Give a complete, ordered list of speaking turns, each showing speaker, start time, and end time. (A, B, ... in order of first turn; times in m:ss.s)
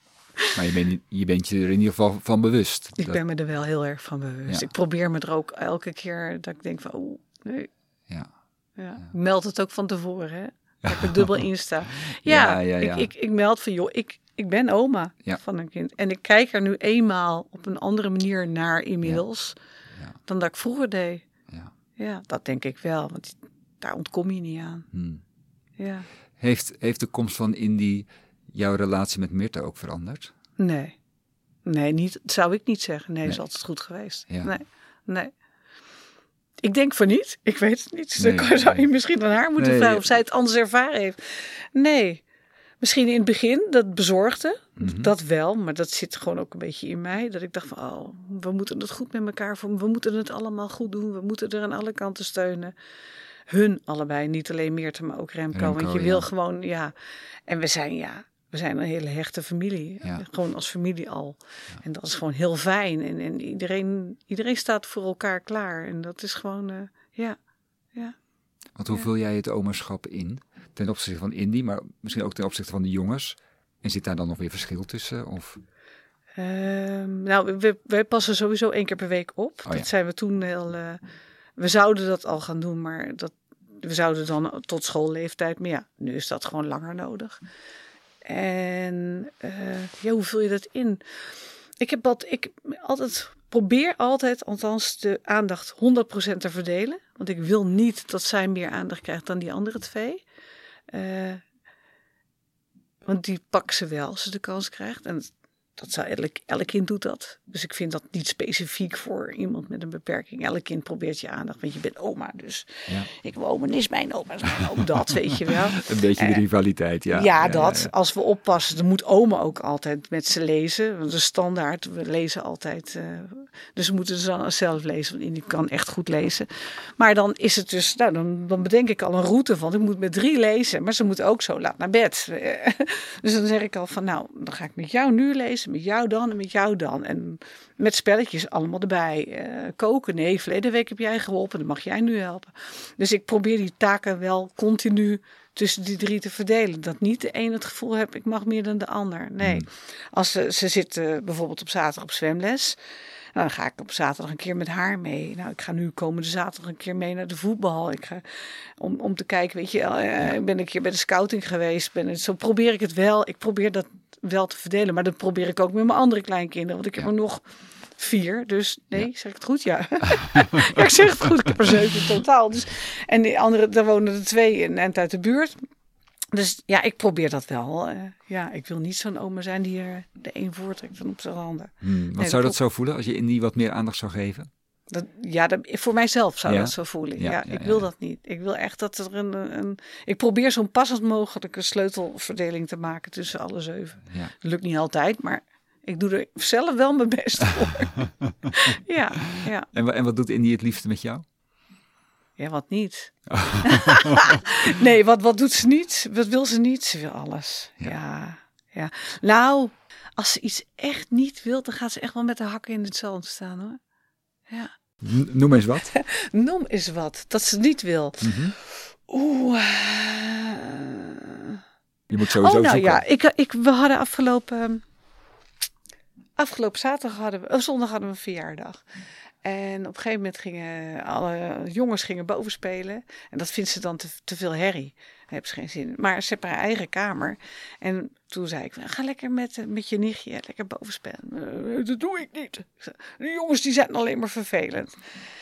0:00.6-0:03.2 A
0:03.0-0:07.7 B
0:08.8-0:19.6 B
0:10.9-0:11.4 A
0:12.1-0:13.1 A
0:20.3-0:21.2 B
0:22.0-0:24.9 B
0:24.9-0:25.2 A
0:25.8-0:26.1 B
0:26.4-0:30.3 A
0:30.6-0:31.0 B
0:31.7-0:35.3 B
0:34.3-0:34.6 A
0:36.6-0:42.2 B
0:38.2-0:38.8 A
0:39.6-0:40.0 A
0:42.8-0:52.7 B
0:44.8-0:45.1 A
0:53.5-0:56.9 B
0:55.5-0:56.3 A
0:57.5-1:07.4 B
1:08.8-1:15.6 A
1:16.4-1:21.0 B
1:21.6-1:27.4 B
1:28.2-1:31.0 B
1:31.8-1:40.2 B
1:40.9-1:41.4 B
1:43.0-1:56.4 B
1:55.8-1:57.9 A
1:57.1-2:32.8 B
2:29.4-2:29.7 A
2:33.4-2:38.2 B
2:38.8-2:47.4 B
2:48.0-2:55.6 B
2:56.3-3:02.6 B
3:01.8-3:04.5 A
3:04.9-3:19.7 B
3:06.5-3:07.9 A
3:19.7-3:21.2 A
3:22.4-3:33.8 B
3:23.3-3:24.3 A
3:35.0-3:35.9 A
3:35.9-3:41.6 B
3:38.2-3:38.6 A
3:42.1-3:43.0 A
3:42.3-3:44.8 B
3:46.4-3:48.8 B
3:49.4-4:05.0 B